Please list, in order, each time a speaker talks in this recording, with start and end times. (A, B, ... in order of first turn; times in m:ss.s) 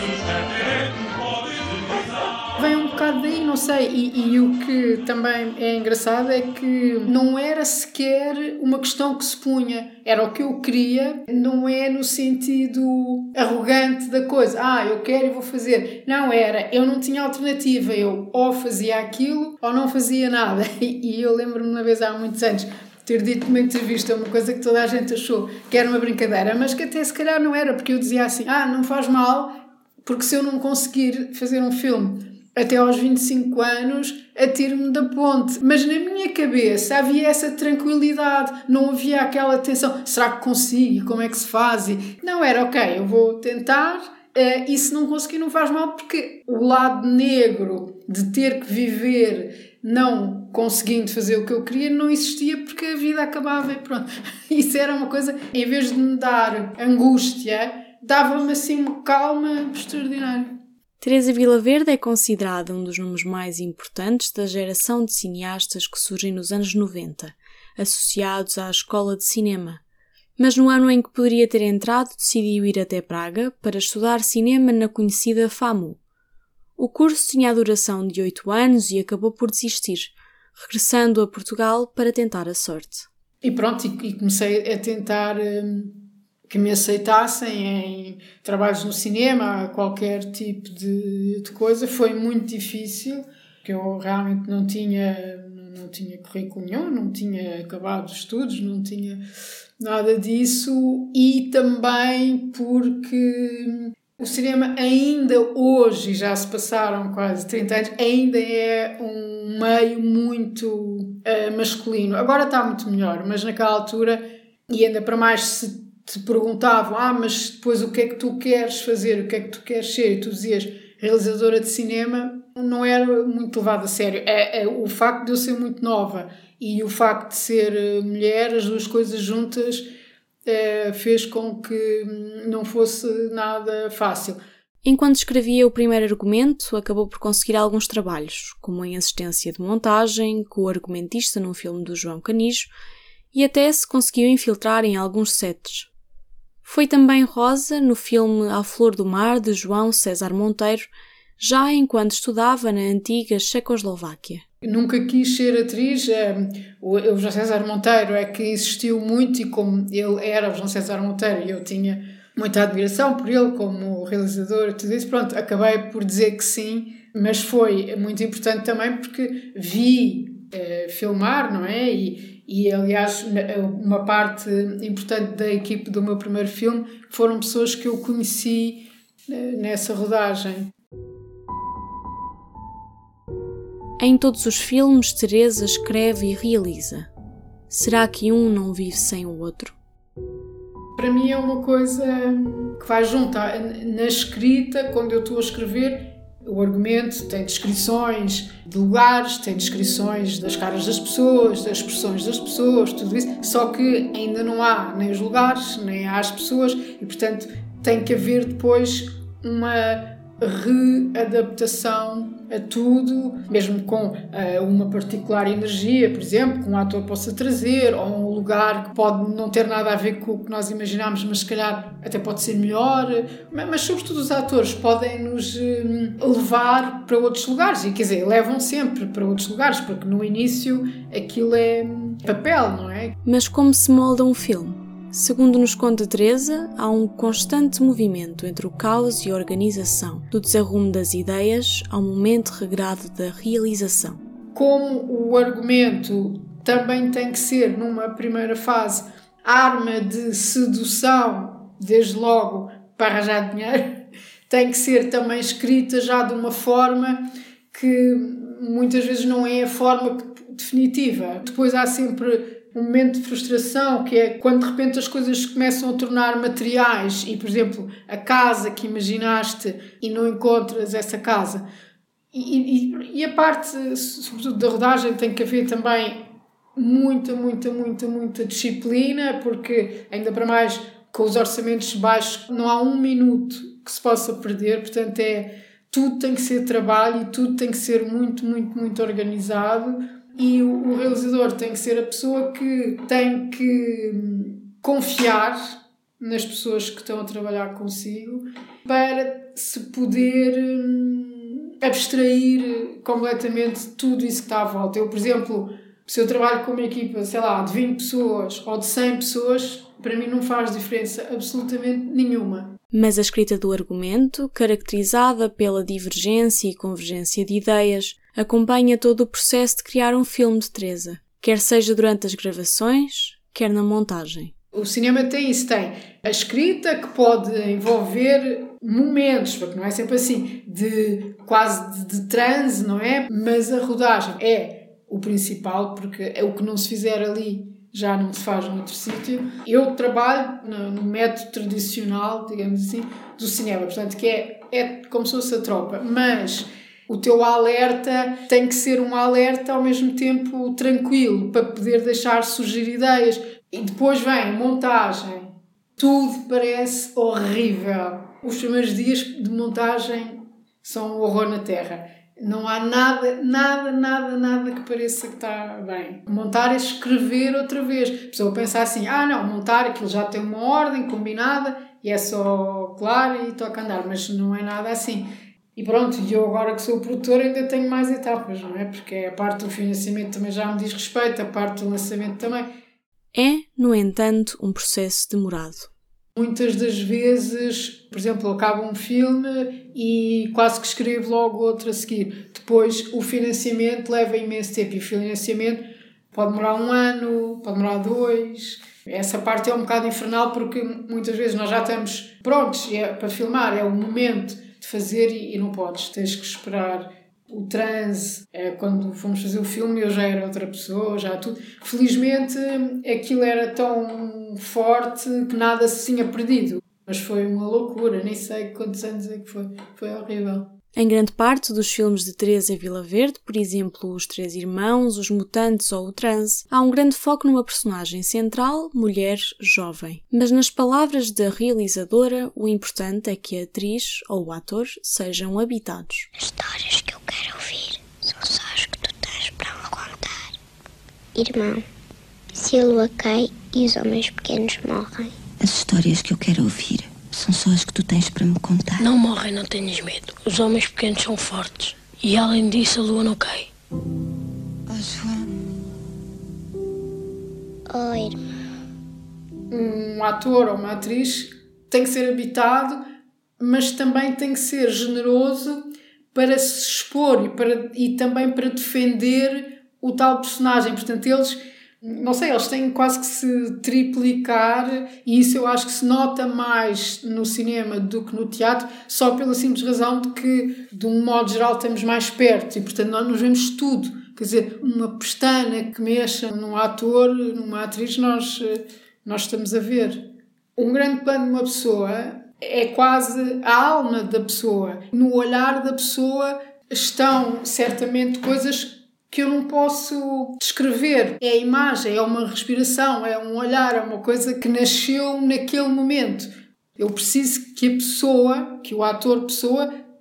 0:02.6-1:00.5 A
1:01.0-1:09.8 B
1:10.4-1:16.0 B
1:16.8-1:23.1 B
1:23.4-1:26.0 A
1:26.5-1:39.2 A
1:39.8-2:09.9 A
2:10.5-2:14.4 A
2:14.8-2:22.7 B
2:23.3-2:25.9 B
2:26.6-2:34.4 B
2:34.6-3:00.7 A
3:04.0-3:07.1 B
3:07.7-3:09.8 B
3:11.0-3:53.2 A
3:53.2-4:04.2 B
4:04.6-4:14.0 A
4:14.5-4:31.6 A
4:32.3-4:36.2 A
4:36.8-5:12.8 A
5:12.9-5:24.5 B
5:24.7-6:22.7 A
6:23.3-6:25.9 B
6:26.4-7:00.7 A
7:01.0-7:16.3 B
7:16.4-7:20.6 C
7:21.4-7:21.8 C
7:22.5-7:25.4 C
7:25.6-7:29.0 D
7:29.0-7:33.7 E
7:34.9-7:35.5 D
7:37.9-7:38.4 C
7:39.7-7:43.0 A
7:43.6-8:10.2 A
8:10.8-8:29.9 A